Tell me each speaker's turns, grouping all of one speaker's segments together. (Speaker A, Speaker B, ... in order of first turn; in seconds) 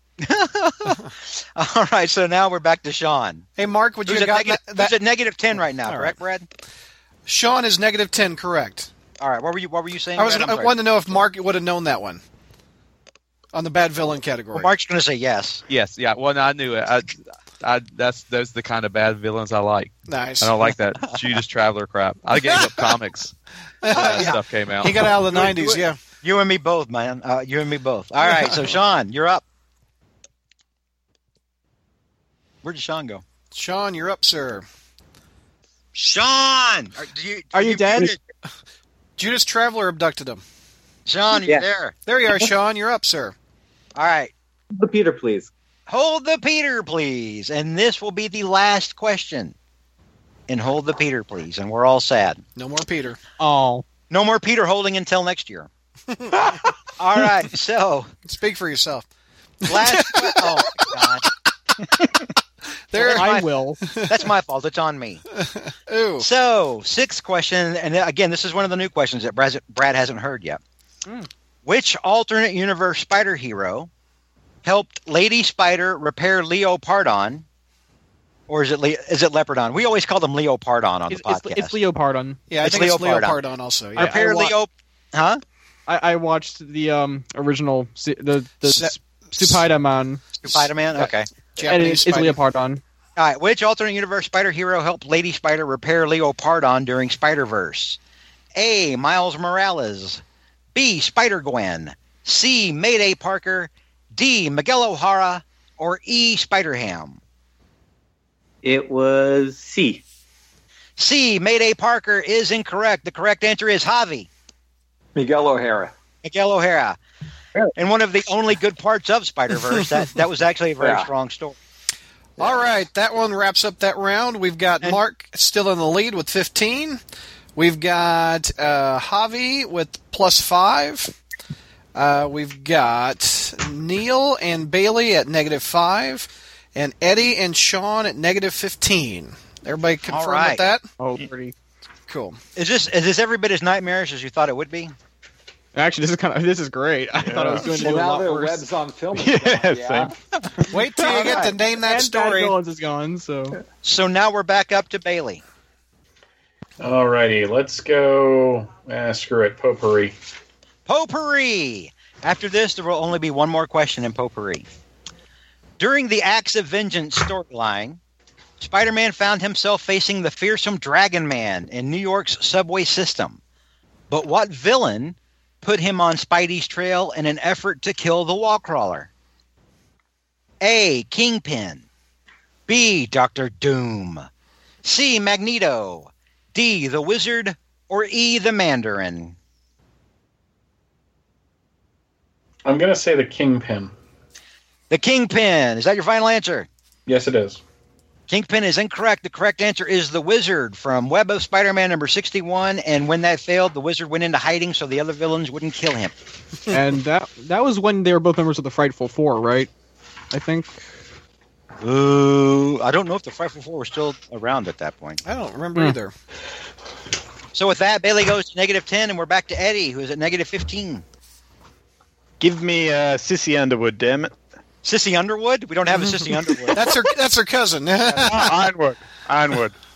Speaker A: 0.2-3.5, 4.0-6.5, 9.2-10.8, 14.5-15.6, 23.9-24.4, 25.3-29.4, 32.6-33.2, 35.9-38.2, 41.1-41.9, 44.0-44.3, 45.9-49.5, 50.5-52.4, 54.1-55.7, 57.0-58.1, 59.7-61.2, 62.9-63.5, 64.0-65.2, 66.2-70.6, 71.6-73.9, 74.6-77.4, 78.5-81.8, 82.6-83.4, 84.0-85.4, 90.4-91.3, 93.2-98.0, 98.5-100.2, 100.7-107.2, 111.0-114.3, 116.2-117.0, 117.8-121.6, 140.1-140.7, 142.6-144.9, 151.1-151.5, 153.8-155.4, 160.8-164.7, 165.8-168.0, 168.6-173.4, 174.1-179.1, 180.6-181.8, 182.7-184.3, 184.8-189.3, 194.9-196.7, 198.3-206.1, 211.8-215.2, 217.5-221.0, 224.8-226.9
Speaker B: 3.6-4.9, 7.2-8.9, 10.2-12.2, 13.5-14.7, 20.1-20.6, 22.4-22.8, 23.8-26.0, 28.3-28.5, 33.5-34.6, 39.2-40.4, 42.0-43.3, 52.5-53.2, 58.2-59.1, 59.6-61.0, 62.9-63.3, 63.9-64.2, 65.3-66.3, 82.5-84.2, 88.6-89.6, 90.5-92.4, 122.4-127.0, 127.5-131.1, 131.9-140.8, 142.1-142.4, 150.7-152.6, 215.2-216.1, 226.0-228.6
Speaker C: 15.7-23.3, 23.9-25.0
Speaker D: 37.5-38.1, 53.4-53.8, 63.0-63.8, 81.1-82.4, 84.0-84.5, 85.9-90.2, 91.6-92.8, 141.0-141.5, 145.7-148.6, 151.3-153.6, 206.7-209.7, 210.3-210.8
Speaker E: 44.7-45.5, 108.6-110.0
Speaker F: 115.1-115.9, 120.8-121.1, 147.7-150.1
Speaker G: 147.2-147.7, 149.1-150.7, 222.4-224.3, 228.2-229.7
Speaker H: 156.8-160.1, 192.6-193.9, 197.1-197.6